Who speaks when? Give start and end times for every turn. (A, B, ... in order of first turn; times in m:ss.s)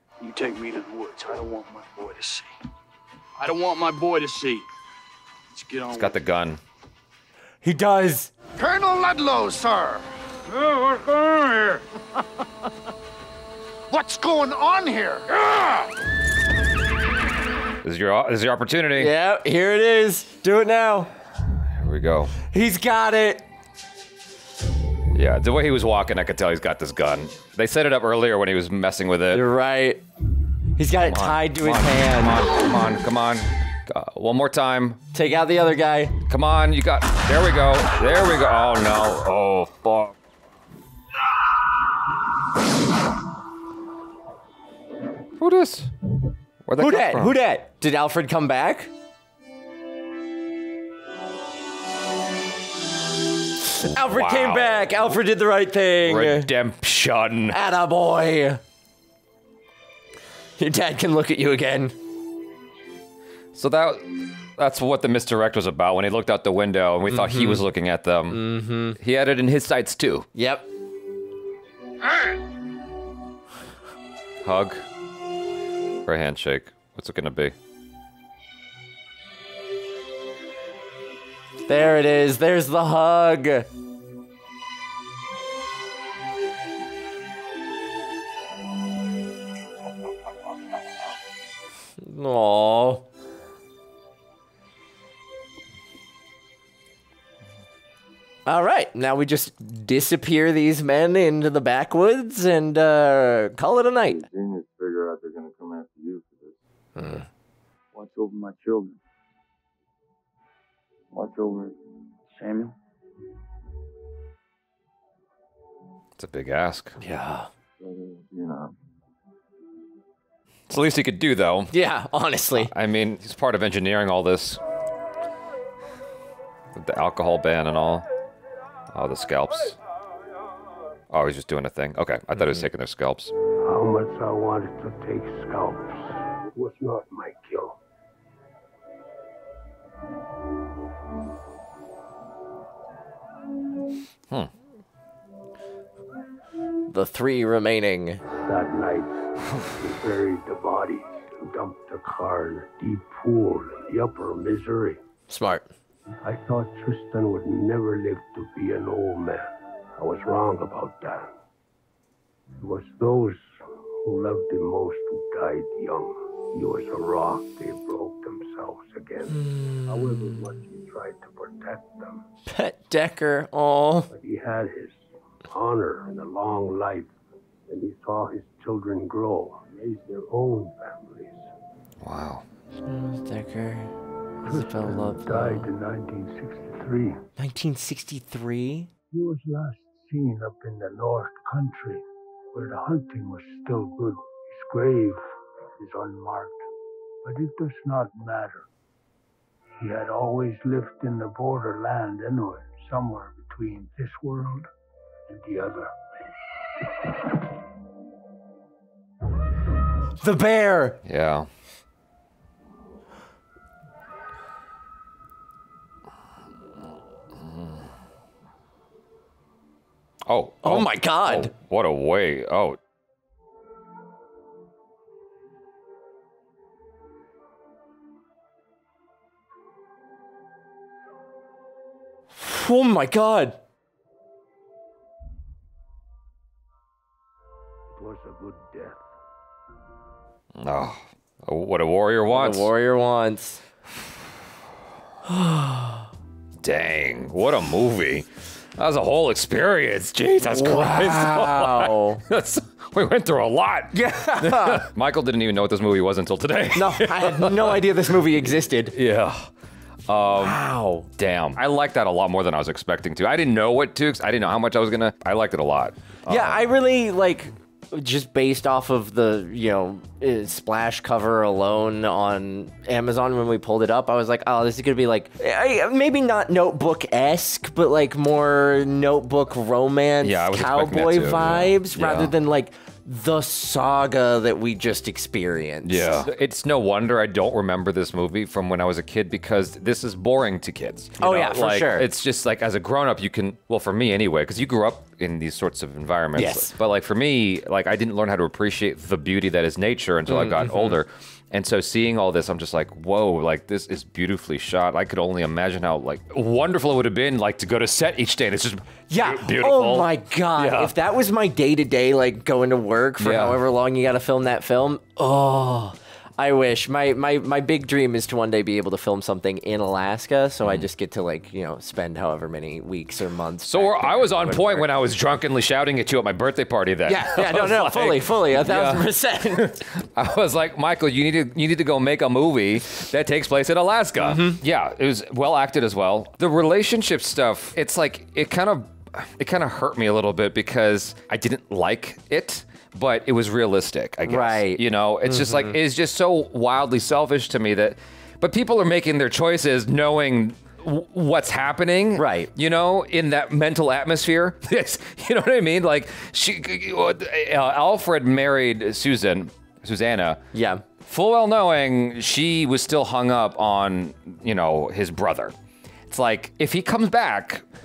0:00.2-0:02.5 A
0:03.4-0:04.6 A
0:05.5-0:06.2 A
0:05.9-0:06.6 B
0:07.6-0:08.3 C
0:08.6-0:10.0 D
0:11.2-0:11.7 D
0:13.9-0:15.3 D
0:17.8-0:19.1 B
0:19.0-0:21.1 C
0:21.7-0:22.3 B
0:22.5-0:23.4 C
0:25.1-0:29.5 B
0:29.3-0:30.0 C
0:30.8-0:32.5 C
0:31.0-0:35.0 B
0:35.1-0:36.2 C
0:36.3-0:40.1 B
0:45.4-0:45.9 B
0:46.6-0:47.4 B
0:46.8-0:48.9 C
0:53.7-0:56.5 C
0:53.8-0:55.2 B
0:56.0-0:57.6 B
0:57.5-0:58.6 C
1:00.6-1:02.0 C
1:03.6-1:10.3 B
1:07.1-1:07.6 C
1:08.3-1:09.0 C
1:10.4-1:10.7 C
1:14.4-1:14.8 B
1:16.1-1:17.6 B
1:21.7-1:23.7 C
1:32.0-1:33.0 C
1:38.5-1:44.3 C
1:44.1-1:46.6 E
1:47.0-1:47.3 C
1:47.9-1:49.0 F
1:51.1-1:51.8 F
1:52.4-1:52.7 F
1:56.2-1:57.0 B
1:57.0-1:57.5 C
1:57.8-1:58.7 E
2:00.7-2:01.7 B
2:01.7-2:02.7 C
2:02.6-2:04.6 B
2:06.7-2:08.1 B
2:08.9-2:09.8 B
2:11.1-2:13.3 B
2:13.6-2:17.8 G
2:26.9-2:28.2 C
2:28.4-2:29.2 G
2:29.8-2:35.0 G
2:35.3-2:35.7 C
2:36.2-2:41.3 G
2:42.6-2:52.2 G
2:49.3-2:50.2 C
2:52.5-2:54.1 C
2:54.1-2:57.1 G
2:57.7-3:01.5 G
3:02.0-3:02.4 B
3:02.9-3:03.9 C
3:04.4-3:07.2 G
3:04.4-3:05.7 C
3:07.4-3:08.9 C
3:09.1-3:15.2 G
3:15.8-3:16.6 G
3:17.2-3:18.7 G
3:19.8-3:24.7 G
3:25.3-3:25.9 G
3:30.2-3:31.0 C
3:31.0-3:31.5 B
3:37.4-3:37.8 B
3:40.3-3:42.8 B
3:40.6-3:41.5 C
3:52.4-3:53.6 C
3:57.9-3:59.1 G
4:00.6-4:02.7 B
4:02.3-4:03.6 C
4:05.3-4:06.1 C
4:06.6-4:17.8 B
4:10.5-4:12.2 C
4:13.9-4:14.9 C
4:16.7-4:19.0 C
4:18.9-4:19.5 B
4:20.1-4:20.6 B
4:20.4-4:21.1 C
4:21.2-4:26.6 B
4:26.3-4:46.2 C
4:40.2-4:42.3 B
4:45.8-5:10.9 B
4:51.2-4:52.1 C
4:56.4-4:56.7 C
5:00.3-5:01.0 C
5:09.1-5:24.9 C
5:13.2-5:13.6 B
5:23.6-6:00.4 B
5:27.1-5:29.8 C
5:34.2-5:34.6 C
5:44.3-5:45.8 C
5:52.2-5:52.5 C
6:00.5-6:00.8 C
6:01.0-6:05.5 B
6:06.1-6:07.7 B